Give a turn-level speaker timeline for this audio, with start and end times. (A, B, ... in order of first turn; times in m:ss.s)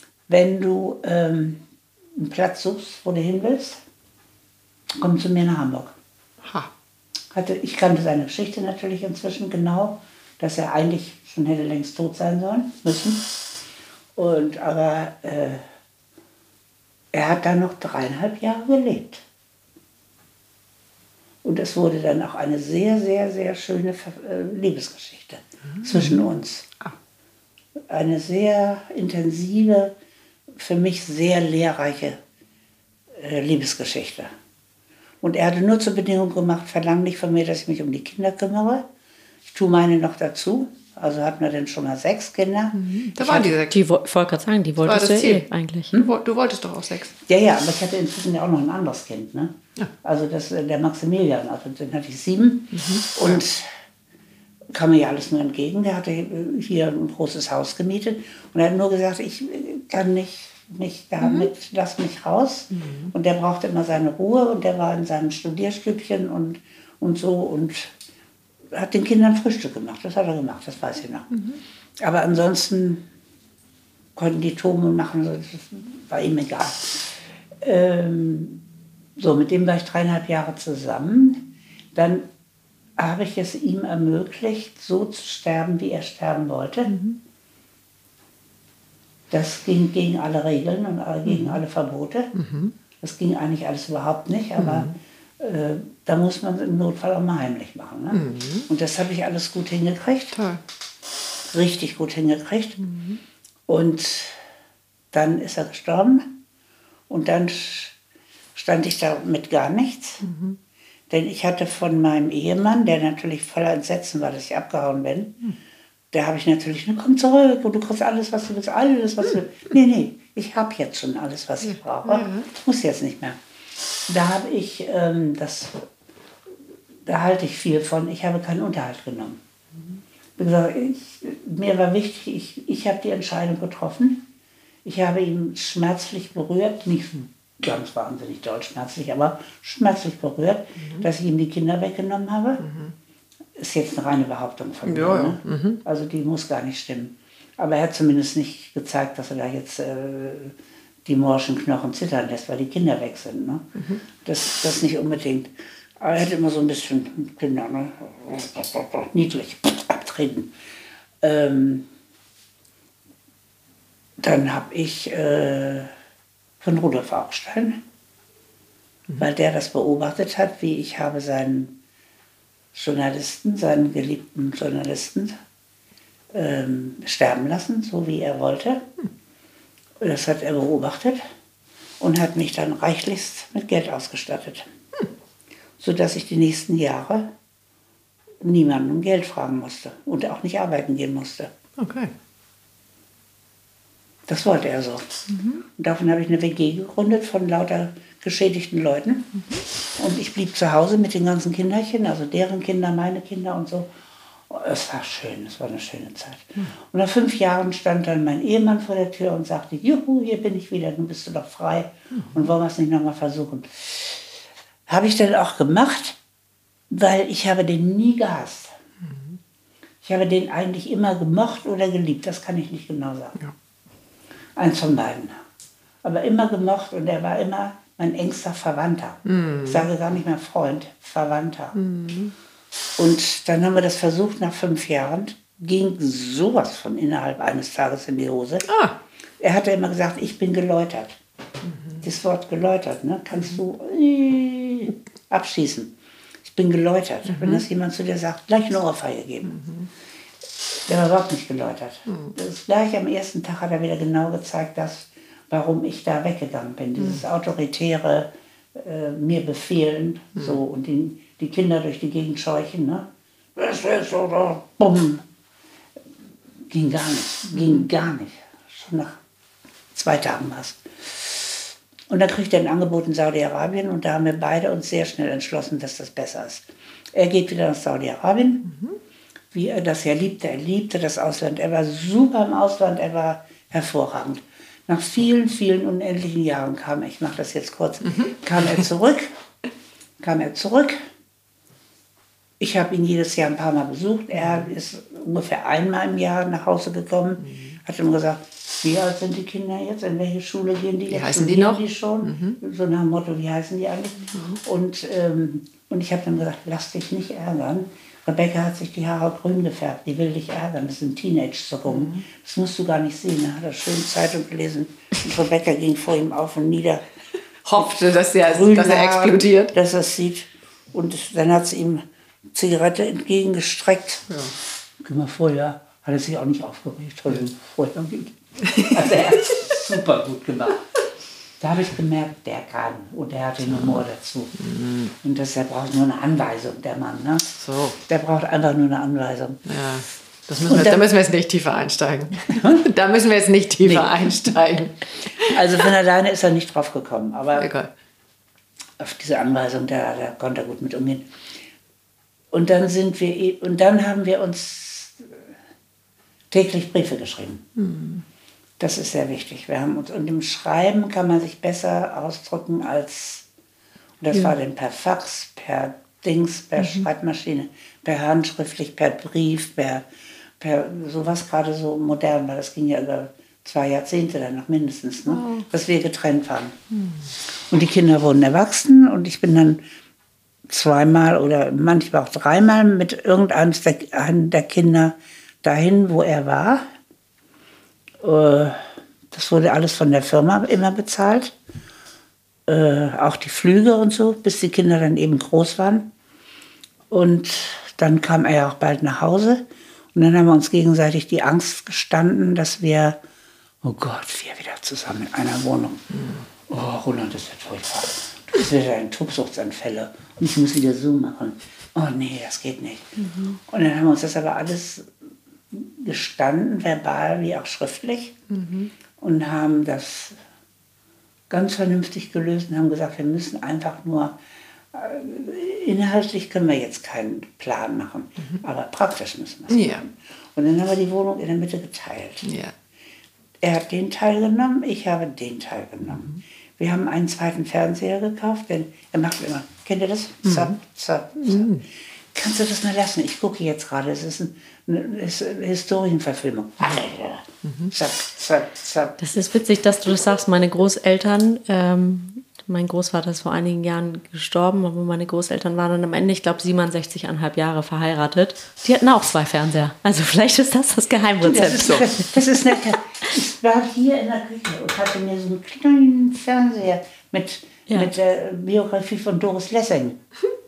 0:00.3-0:01.6 A
0:02.2-0:03.8 A
0:05.0-0:06.0 A
0:06.4-0:06.7 B
0:07.3-0:13.4 A
0:14.2-0:15.6 A
0:17.1-0:19.2 A
0:21.4-0:26.7 A
0:25.8-0:26.2 B
0:27.9-0:29.9 A
0:30.6-0:32.2 A
0:33.2-0:34.3 A
0:35.2-0:38.8 A
0:39.5-0:43.5 A
0:42.7-0:43.8 B
0:43.7-0:45.9 C
0:44.8-0:47.2 B
0:47.3-0:53.7 A
0:52.7-0:53.4 B
0:54.7-1:07.9 A
1:01.2-1:01.5 B
1:02.7-1:03.1 B
1:08.7-1:11.3 A
1:11.3-1:11.6 B
1:12.0-1:13.0 A
1:14.2-1:17.1 A
1:17.6-1:18.6 A
1:19.2-1:22.3 A
1:23.0-1:26.9 A
1:26.9-1:27.2 B
1:29.3-1:32.3 A
1:31.3-1:31.6 B
1:32.3-1:32.7 B
1:33.0-1:40.4 A
1:34.6-1:34.9 B
1:38.1-1:38.7 B
1:40.3-1:40.6 B
1:41.5-1:42.8 A
1:42.8-1:43.2 B
1:43.7-1:44.4 A
1:45.1-1:46.4 A
1:47.1-1:47.9 A
1:48.5-1:50.2 A
1:50.2-1:50.6 B
1:51.1-1:55.4 A
1:56.1-2:03.4 A
2:01.7-2:02.5 B
2:04.1-2:05.9 A
2:07.0-2:09.4 A
2:10.4-2:14.2 A
2:14.8-2:22.6 A
2:20.8-2:21.1 B
2:22.6-2:22.9 B
2:23.6-2:33.7 A
2:24.8-2:25.8 B
2:33.8-2:34.0 B
2:34.2-2:40.5 A
2:41.2-2:41.9 A
2:44.2-2:45.9 A
2:46.6-2:47.8 A
2:49.2-2:51.8 A
2:52.7-2:55.4 A
2:56.3-2:58.8 A
3:00.0-3:01.2 A
3:02.0-3:04.7 A
3:05.8-3:07.3 A
3:08.4-3:11.5 A
3:11.8-3:12.1 B
3:14.3-3:15.1 A
3:15.3-3:15.6 B
3:15.8-3:19.4 A
3:20.0-3:23.9 A
3:24.5-3:34.3 A
3:34.9-3:36.2 A
3:36.9-3:38.7 A
3:39.0-3:39.4 B
3:40.0-3:43.4 A
3:44.6-3:45.4 A
3:46.0-3:51.8 A
3:49.2-3:49.9 B
3:51.7-3:52.3 B
3:53.0-3:58.7 A
3:58.7-3:59.0 B
3:59.4-4:01.2 A
4:01.6-4:02.0 B
4:02.0-4:05.9 A
4:06.4-4:09.6 A
4:07.3-4:07.6 B
4:09.5-4:09.9 B
4:10.8-4:25.2 A
4:12.1-4:12.3 B
4:26.7-4:29.2 A
4:27.6-4:27.8 B
4:29.9-4:38.7 A
4:38.6-4:39.0 B
4:39.5-4:49.3 A
4:48.1-4:48.8 B
4:50.2-4:51.0 A
4:52.6-5:17.0 A
4:54.4-4:54.7 B
4:57.4-4:57.8 B
5:01.1-5:02.6 B
5:11.9-5:12.2 B
5:17.6-5:19.7 B
5:17.8-5:24.3 A
5:24.3-5:24.5 B
5:25.0-5:30.8 A
5:28.6-5:29.5 B
5:31.6-5:34.6 A
5:33.8-5:34.0 B
5:34.6-5:35.1 B
5:35.2-5:37.5 A
5:37.6-5:38.0 B
5:38.0-5:39.6 A
5:39.6-5:45.8 B
5:40.7-5:41.1 A
5:42.5-5:42.8 A
5:43.8-5:44.3 A
5:45.4-5:47.7 A
5:47.6-5:47.9 B
5:49.0-5:51.3 A
5:52.5-5:55.4 A
5:56.5-5:57.6 A
5:57.8-5:58.2 B
5:58.8-6:03.4 A
6:04.2-6:10.0 A
6:10.6-6:16.8 A
6:17.7-6:19.8 A
6:20.7-6:26.9 A
6:28.2-6:31.5 A
6:32.7-6:36.1 A
6:37.1-6:43.2 A
6:43.8-6:46.0 A
6:46.7-6:53.1 A
6:53.7-6:55.1 A
6:55.7-6:58.4 A
6:58.5-6:58.9 B
6:59.2-7:00.4 A
7:01.5-7:04.4 A
7:04.9-7:12.5 A
7:09.7-7:10.0 B
7:12.4-7:12.7 B
7:13.6-7:21.7 A
7:20.5-7:20.7 B
7:21.4-7:21.8 B
7:22.3-7:29.2 A
7:27.6-7:27.9 B
7:29.2-7:42.2 C
7:41.4-7:50.2 A
7:41.7-7:42.1 B
7:47.9-7:48.1 C